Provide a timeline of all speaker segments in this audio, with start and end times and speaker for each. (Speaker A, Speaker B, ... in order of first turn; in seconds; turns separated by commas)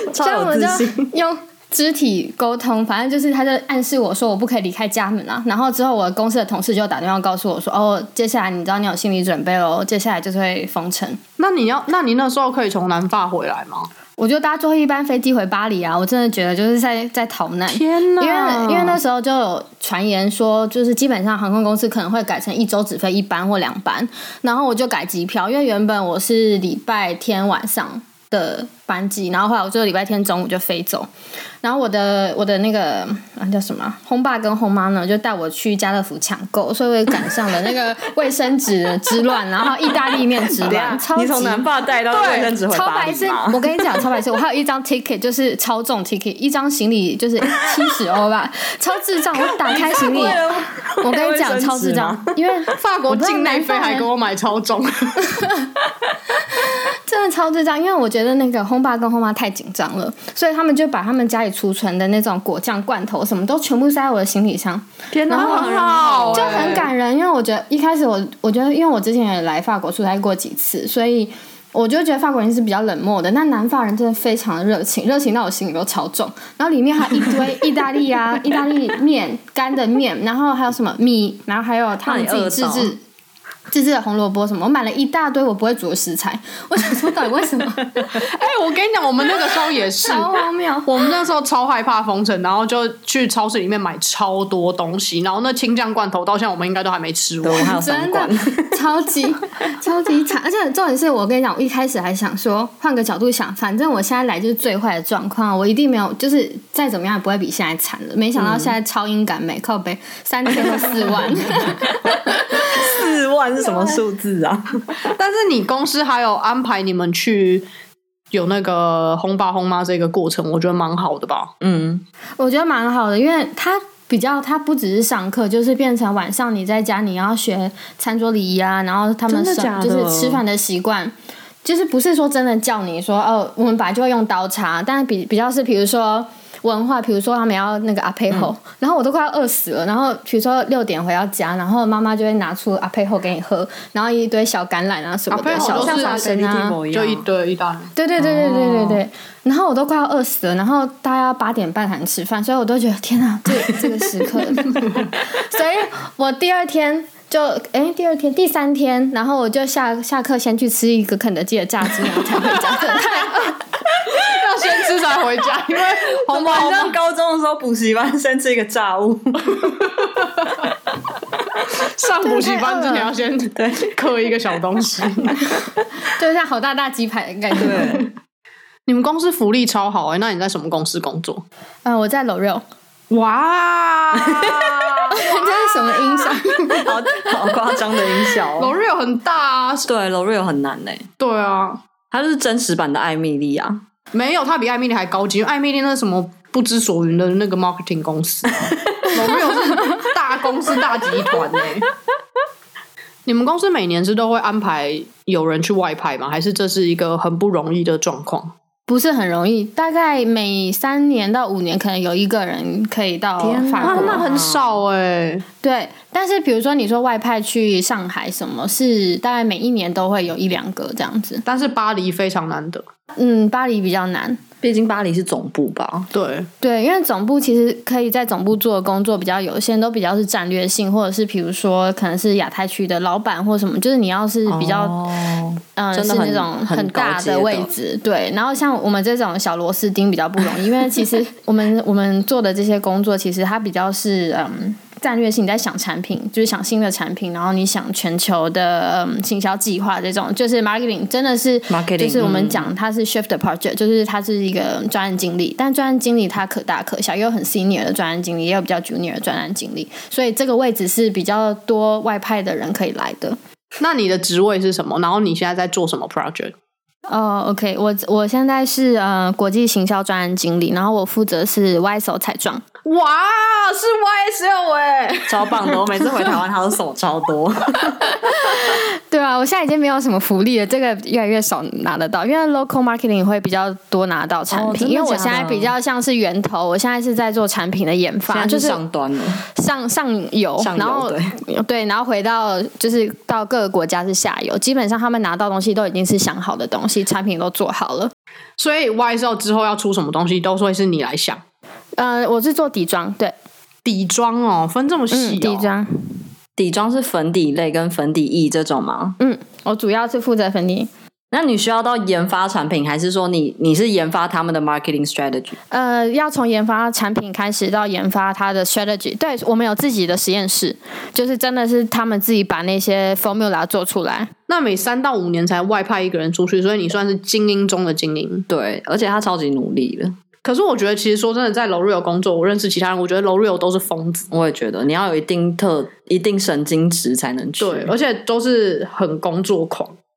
Speaker A: 0.1-1.1, Speaker B: 0.2-11.2, Speaker C: 11.4-13.9, Speaker B: 14.2-31.1, Speaker C: 17.7-19.0, Speaker B: 31.6-50.4, Speaker A: 40.4-44.0, Speaker C: 42.1-42.5, Speaker A: 49.4-52.3, Speaker B: 51.0-54.1, Speaker C: 52.7-55.4, Speaker B: 55.3-55.7, Speaker B: 56.5-83.0, Speaker A: 65.1-66.9, Speaker C: 65.3-66.9, Speaker A: 82.0-82.9, Speaker B: 83.7-88.2, Speaker C: 88.1-97.7, Speaker B: 90.0-90.9, Speaker A: 97.4-98.8, Speaker B: 97.5-113.0, Speaker A: 108.3-108.7, Speaker A: 110.6-115.0, Speaker B: 113.7-114.0, Speaker C: 115.1-117.7, Speaker C: 118.3-121.5, Speaker A: 121.6-122.0, Speaker B: 122.4-146.8, Speaker A: 129.3-130.4, Speaker C: 145.3-146.4, Speaker A: 145.5-147.2, Speaker C: 146.9-147.9, Speaker B: 148.0-163.6, Speaker A: 148.2-149.0, Speaker C: 164.0-167.0, Speaker A: 166.2-169.9, Speaker C: 171.7-175.4, Speaker B: 172.2-173.1, Speaker A: 173.6-173.9, Speaker B: 176.0-178.1, Speaker A: 177.6-178.1, Speaker C: 178.9-181.4, Speaker B: 181.8-182.6, Speaker C: 183.1-186.9, Speaker A: 184.2-185.1, Speaker B: 185.1-186.9, Speaker A: 186.7-188.7, Speaker C: 188.4-189.9, Speaker A: 189.8-191.1, Speaker C: 191.2-191.8, Speaker A: 192.1-193.8, Speaker C: 194.1-201.9, Speaker A: 198.5-199.5, Speaker C: 203.2-208.5, Speaker B: 208.9-214.2, Speaker C: 213.4-215.4, Speaker A: 213.8-214.8, Speaker B: 215.6-221.4, Speaker C: 221.4-222.8, Speaker B: 223.2-224.4, Speaker A: 224.6-226.1, Speaker C: 226.1-226.5, Speaker B: 226.6-235.0, Speaker A: 234.5-237.7, Speaker B: 235.8-263.4, Speaker A: 251.7-252.7, Speaker C: 263.8-266.5, Speaker B: 267.1-272.6, Speaker C: 272.9-275.8, Speaker A: 275.3-278.1, Speaker B: 278.1-288.8, Speaker A: 284.5-285.7, Speaker A: 288.3-289.4, Speaker B: 289.5-298.1, Speaker A: 290.6-291.4, Speaker C: 298.6-301.4, Speaker B: 302.0-303.3, Speaker C: 303.9-305.7, Speaker B: 305.1-305.9, Speaker A: 306.6-309.2, Speaker B: 309.2-310.9, Speaker A: 311.3-315.6, Speaker B: 315.7-324.3, Speaker C: 324.5-328.5, Speaker A: 328.5-330.2, Speaker C: 330.4-334.3, Speaker A: 334.3-337.9, Speaker C: 337.6-340.0